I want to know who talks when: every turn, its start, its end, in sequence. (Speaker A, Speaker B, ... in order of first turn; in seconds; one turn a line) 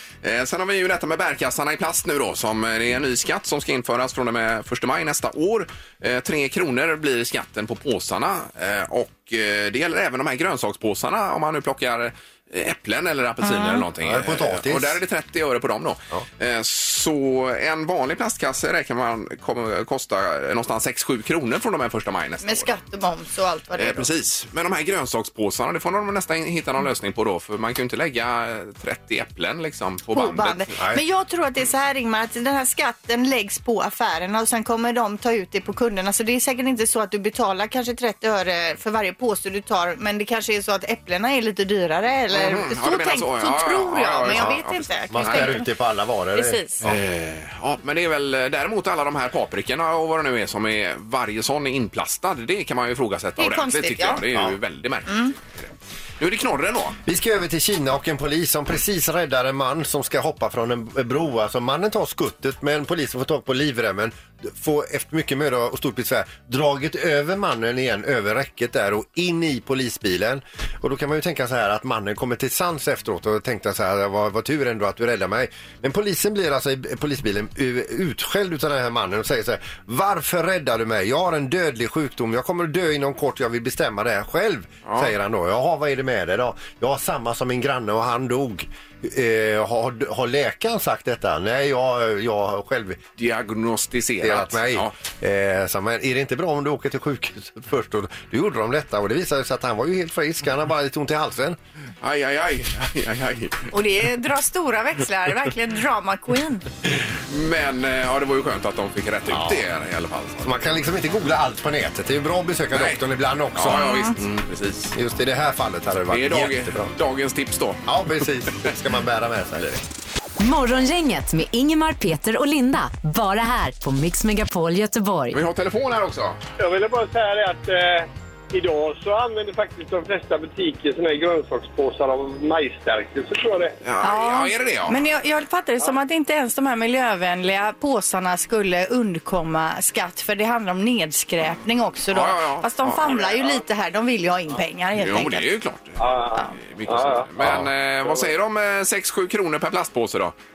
Speaker A: 0.2-22.7
Speaker B: 13.4-13.8
Speaker C: 14.0-15.0
Speaker B: 22.4-24.1
Speaker A: 23.8-30.8
Speaker B: 30.1-45.7
Speaker A: 42.3-45.6
Speaker C: 44.3-44.6
Speaker C: 45.1-47.0
Speaker B: 46.3-46.9
Speaker A: 46.8-57.0
Speaker B: 53.4-54.2
Speaker B: 55.1-55.3
Speaker C: 57.0-93.0
Speaker A: 84.8-85.1
Speaker A: 93.2-94.9
Speaker C: 94.2-101.6
Speaker A: 102.0-103.7
Speaker B: 103.7-106.6
Speaker A: 107.1-110.8
Speaker C: 109.3-109.6
Speaker C: 110.4-114.0
Speaker A: 112.7-113.0
Speaker A: 113.5-115.0
Speaker B: 113.7-114.1
Speaker C: 114.9-116.9
Speaker A: 116.1-118.7
Speaker C: 117.9-119.8
Speaker D: 120.5-125.3
Speaker A: 125.3-126.4
Speaker E: 126.6-133.8
Speaker A: 133.8-135.0
Speaker B: 134.0-145.4
Speaker A: 142.1-143.2
Speaker E: 143.2-143.6
Speaker A: 145.0-150.3
Speaker E: 146.0-147.3
Speaker C: 147.4-147.7
Speaker E: 148.0-148.3